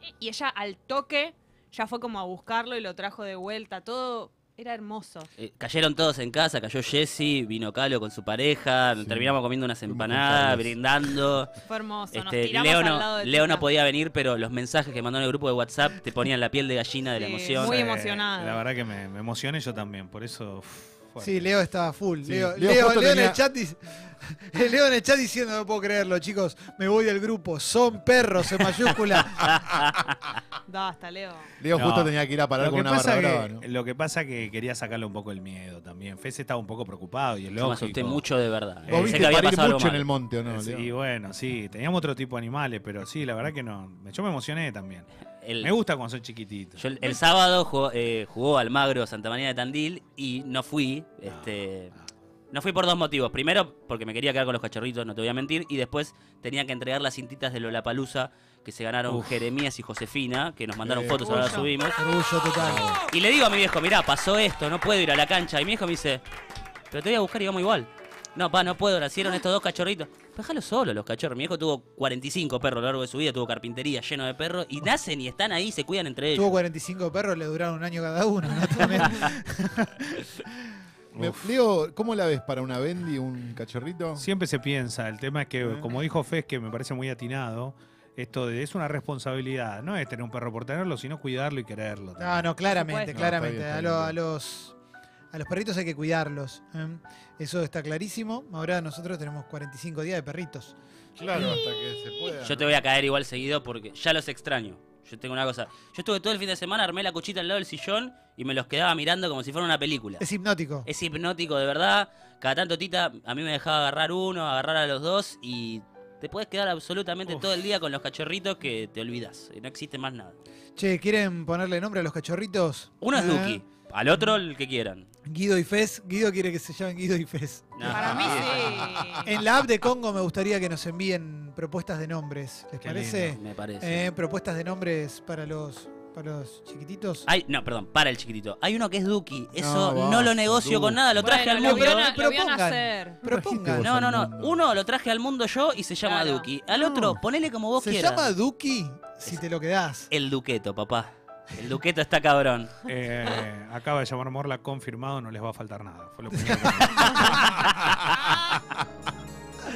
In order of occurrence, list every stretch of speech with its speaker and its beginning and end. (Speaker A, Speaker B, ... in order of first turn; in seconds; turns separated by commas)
Speaker A: 0.2-5.3, Speaker B: 5.4-11.5, Speaker C: 9.0-9.3, Speaker C: 9.8-10.7, Speaker A: 11.6-13.7, Speaker B: 12.1-17.8, Speaker A: 17.1-18.6, Speaker D: 17.5-21.5, Speaker E: 21.2-29.5, Speaker C: 22.2-23.4, Speaker B: 29.4-30.3, Speaker A: 30.7-31.5, Speaker C: 31.6-33.6, Speaker D: 31.7-38.3, Speaker B: 37.6-40.1, Speaker D: 38.8-39.4, Speaker C: 38.9-40.9, Speaker D: 40.4-45.1, Speaker B: 45.4-45.7, Speaker D: 45.6-47.1, Speaker B: 46.8-51.9, Speaker D: 51.2-51.6, Speaker B: 52.5-62.0, Speaker D: 59.1-59.4, Speaker C: 60.8-61.7, Speaker E: 62.0-62.8, Speaker B: 62.6-66.2, Speaker C: 62.6-63.0, Speaker B: 66.9-76.6, Speaker E: 76.3-80.5, Speaker D: 81.1-81.5, Speaker C: 81.1-84.2, Speaker D: 84.2-92.5, Speaker E: 92.2-94.7, Speaker A: 92.7-93.2, Speaker C: 93.1-94.2, Speaker E: 95.3-100.7, Speaker C: 101.2-102.8, Speaker E: 101.3-101.6, Speaker B: 102.4-110.2, Speaker E: 110.2-110.9, Speaker B: 110.8-120.3, Speaker E: 120.8-123.6, Speaker B: 123.0-125.1, Speaker E: 125.3-137.3, Speaker B: 127.7-129.0, Speaker A: 127.8-129.4, Speaker D: 132.8-133.3, Speaker B: 133.3-134.1, Speaker B: 137.3-142.1, Speaker C: 139.6-141.3, Speaker A: 141.2-143.2, Speaker E: 141.3-143.9, Speaker C: 143.2-144.7, Speaker B: 143.7-148.3, Speaker A: 146.0-146.5, Speaker E: 147.8-150.1, Speaker B: 150.1-152.7, Speaker D: 152.9-157.9, Speaker E: 156.3-157.5, Speaker B: 157.0-157.3